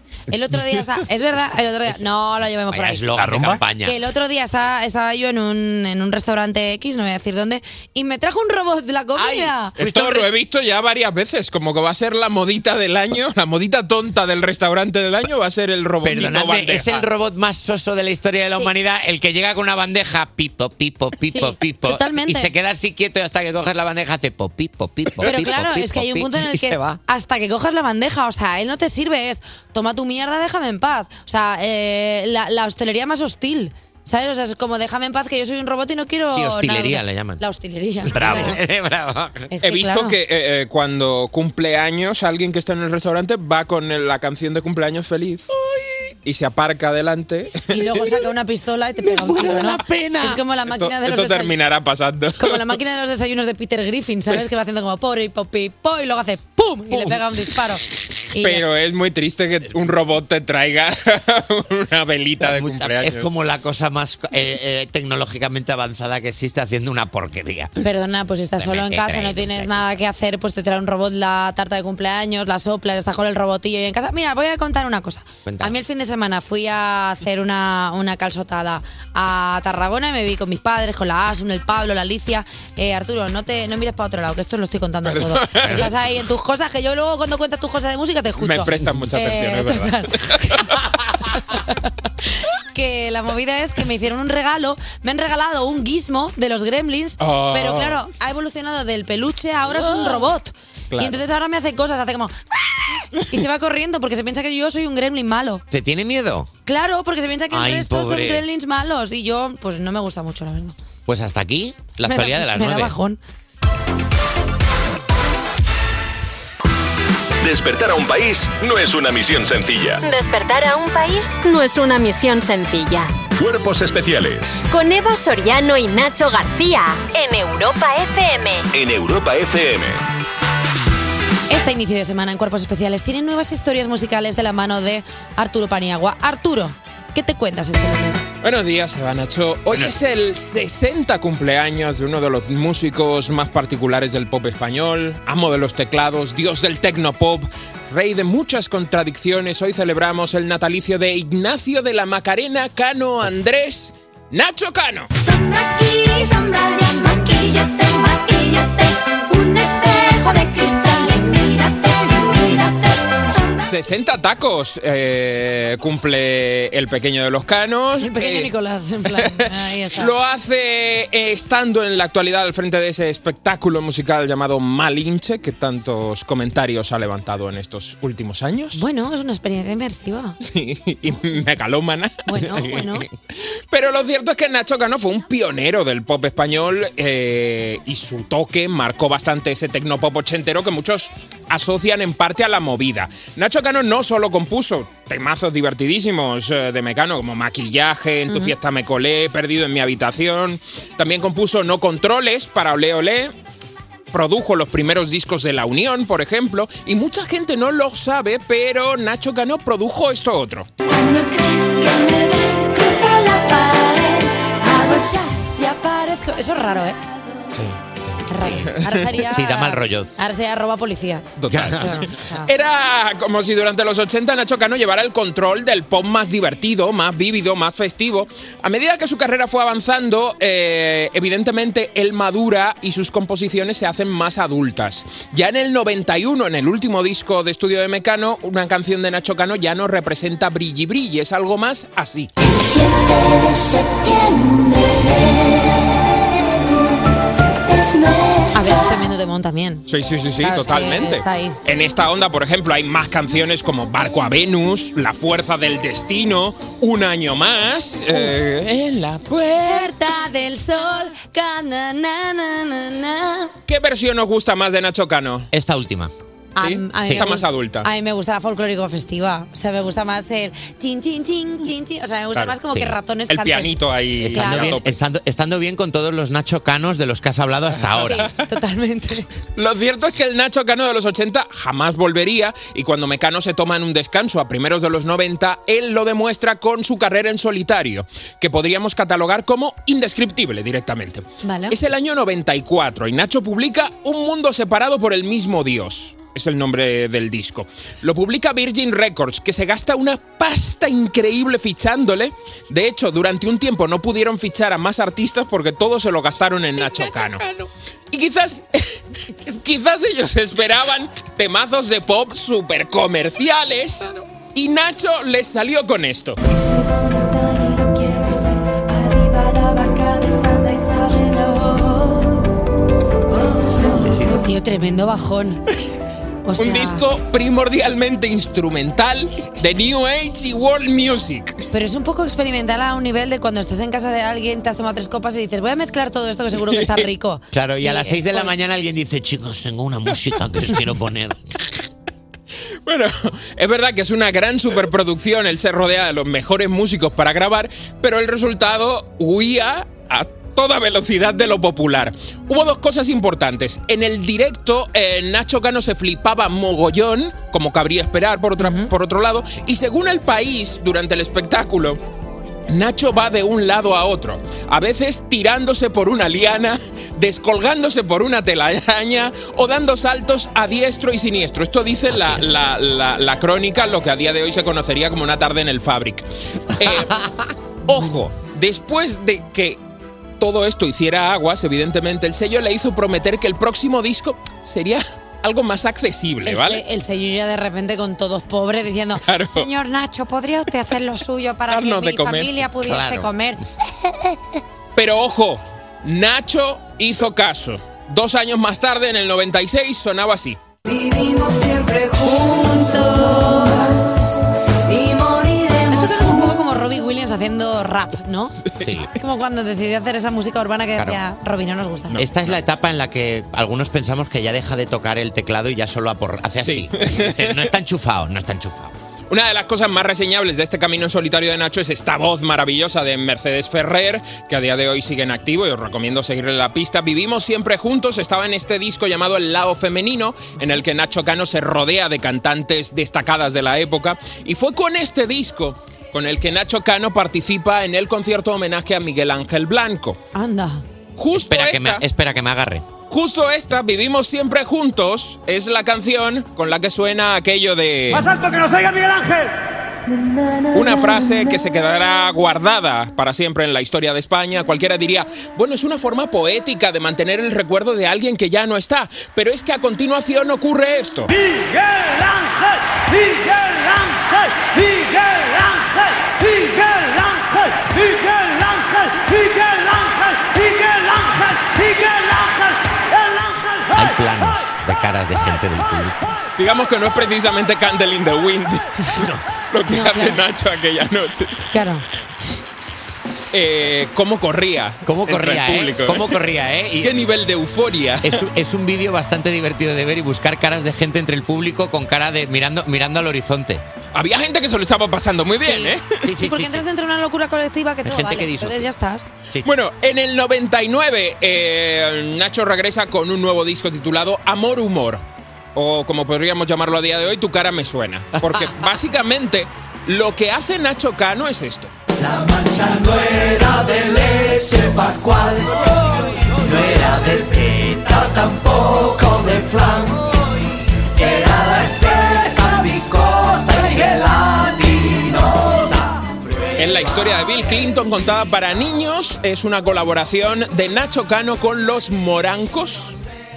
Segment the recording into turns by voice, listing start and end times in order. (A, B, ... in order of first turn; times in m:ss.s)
0:00.3-0:03.1 A
0:02.7-0:04.0 B
0:03.8-0:09.8 A
0:09.2-0:10.2 B
0:09.8-0:17.0 C
0:16.0-0:27.0 B
0:21.3-0:22.5 A
0:25.2-0:38.6 A
0:36.3-0:37.4 B
0:38.0-0:39.5 B
0:39.5-0:40.2 A
0:39.6-0:45.4 C
0:46.2-0:48.0 C
0:47.7-0:51.6 A
0:49.6-0:49.9 B
0:50.2-0:52.6 C
0:52.4-0:58.7 A
0:58.4-1:03.3 C
1:02.4-1:07.8 B
1:07.8-1:30.6 A
1:08.6-1:09.9 B
1:15.4-1:15.8 B
1:25.0-1:25.9 C
1:25.6-1:25.9 B
1:28.4-1:30.7 C
1:32.7-1:45.6 A
1:37.2-1:38.0 C
1:39.8-1:40.2 C
1:40.9-1:41.2 C
1:45.7-1:46.5 B
1:46.7-1:50.7 A
1:47.5-1:48.4 B
1:51.0-1:53.0 B
1:52.0-1:53.2 A
1:57.4-2:00.0 D
2:00.0-2:03.1 E
2:03.4-2:04.7 D
2:04.7-2:08.7 E
2:08.7-2:10.0 D
2:11.5-2:18.3 A
2:18.4-2:35.1 C
2:19.7-2:20.0 B
2:35.4-2:38.7 F
2:39.3-2:42.7 F
2:43.6-2:48.5 C
2:48.0-2:50.1 A
2:49.1-2:58.8 C
2:58.7-3:00.4 A
3:00.4-3:02.2 C
3:02.3-3:03.1 A
3:03.7-3:23.3 C
3:18.3-3:18.5 A
3:24.1-3:30.7 C
3:34.6-3:37.0 A
3:38.3-3:42.5 A
3:38.4-3:40.1 B
3:41.4-4:02.3 C
3:41.5-3:42.0 B
4:08.5-4:09.9 A
4:09.9-4:20.0 C
4:10.4-4:11.6 A
4:19.6-4:23.5 A
4:23.7-4:25.5 C
4:25.5-4:26.1 B
4:26.6-4:34.8 A
4:26.6-4:27.9 C
4:32.7-4:33.0 B
4:33.3-4:35.0 C
4:34.2-4:38.3 B
4:37.7-4:38.5 C
4:38.0-4:39.3 A
4:39.6-5:07.5 C
4:51.4-4:51.8 A
5:08.1-5:16.4 C
5:24.0-5:24.4 B
5:24.1-5:25.6 A
5:26.4-5:27.0 A
5:26.6-5:31.6 C
5:31.7-5:38.5 A
5:36.6-5:37.1 C
5:37.5-5:41.4 B
5:42.9-6:02.0 C
5:58.6-5:58.9 A
6:02.7-6:17.1 C
6:17.9-6:19.8 C
6:20.4-6:26.8 C
6:26.4-6:33.6 A
6:29.2-6:29.7 C
6:31.7-6:32.6 C
6:32.8-6:33.3 B
6:35.0-6:40.6 C
6:41.4-6:42.1 F
6:42.5-6:43.5 A
6:45.9-6:52.2 A
6:48.8-6:49.1 B
6:52.1-6:52.4 C
6:52.1-6:59.0 B
6:56.6-6:57.6 C
6:59.3-7:20.2 C
7:20.3-7:20.8 A
7:21.2-7:22.0 C
7:21.3-7:22.9 B
7:23.1-7:28.7 C
7:30.7-7:41.3 C
7:53.9-7:56.2 B
7:56.6-7:59.0 C
7:59.1-7:59.5 B
7:59.7-8:01.7 C
7:59.9-8:00.4 A
8:01.7-8:02.0 A
8:03.5-8:06.4 C
8:05.0-8:07.2 B
8:07.0-8:08.4 C
8:08.2-8:13.8 B
8:14.1-8:16.2 C
8:15.6-8:19.3 A
8:16.2-8:16.9 B
8:18.0-8:18.9 B
8:19.6-8:25.2 C
8:25.8-8:31.9 C
8:32.2-8:35.8 G
8:36.6-8:40.2 G
8:41.2-8:46.0 G
8:46.8-8:53.1 C